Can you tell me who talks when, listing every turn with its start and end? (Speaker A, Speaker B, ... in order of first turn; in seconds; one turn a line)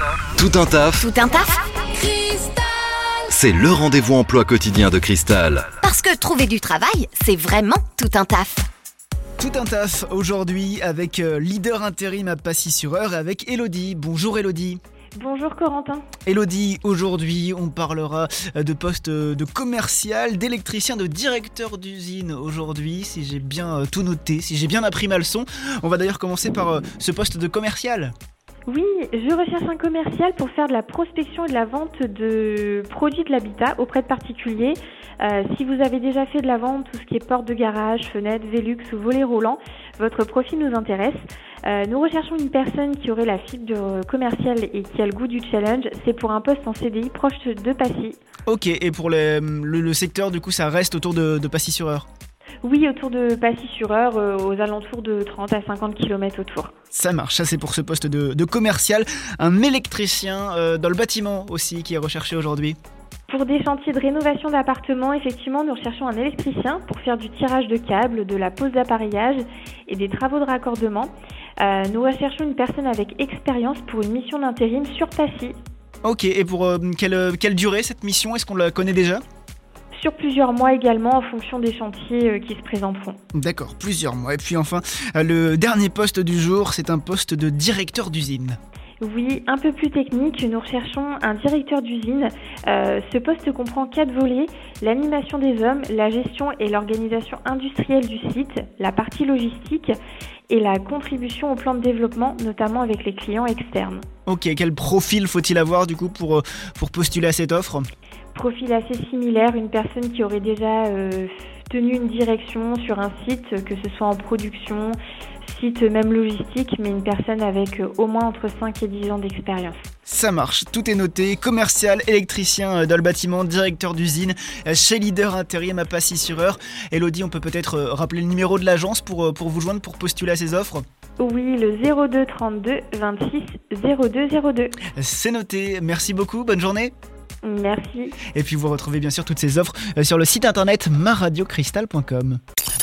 Speaker A: 0.3-1.0
Speaker B: 1.0-1.6
Speaker A: 3.3-5.7
Speaker B: 5.8-8.7
Speaker C: 9.4-14.8
Speaker D: 15.2-16.1
Speaker C: 16.2-28.1
Speaker D: 28.7-48.2
Speaker C: 48.5-52.1
Speaker D: 52.6-56.7
Speaker C: 56.9-62.8
Speaker D: 63.3-75.6
Speaker C: 76.0-79.2
Speaker D: 79.9-83.2
Speaker C: 83.3-88.6
Speaker D: 89.0-99.9
Speaker D: 100.5-104.0
Speaker C: 104.2-107.9
Speaker D: 108.3-119.8
Speaker C: 120.1-130.8
Speaker D: 131.2-134.8
Speaker C: 134.9-136.9
Speaker D: 137.4-138.2
Speaker C: 138.3-142.4